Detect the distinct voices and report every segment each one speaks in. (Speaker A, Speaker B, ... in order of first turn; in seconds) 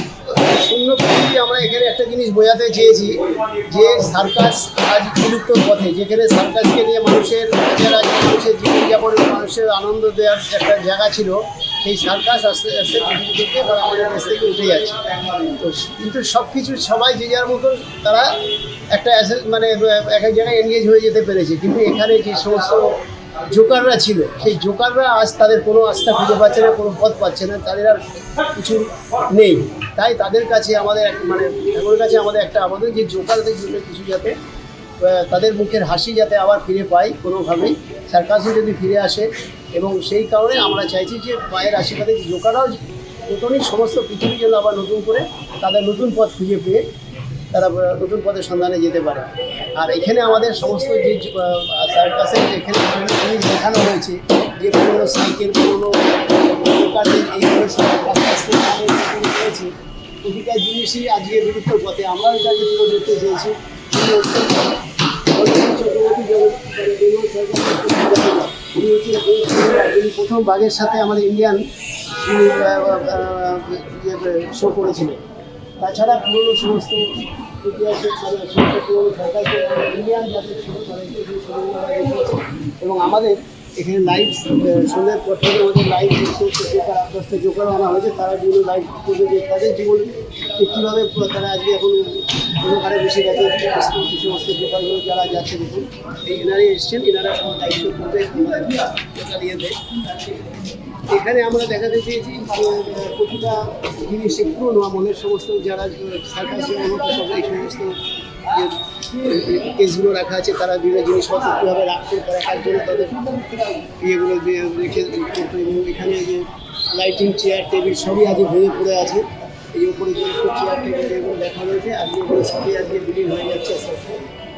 Speaker A: 0.3-18.3, 18.9-34.4, 35.0-46.9, 47.5-59.7, 60.2-64.7, 65.3-75.2, 75.8-99.8, 101.1-124.2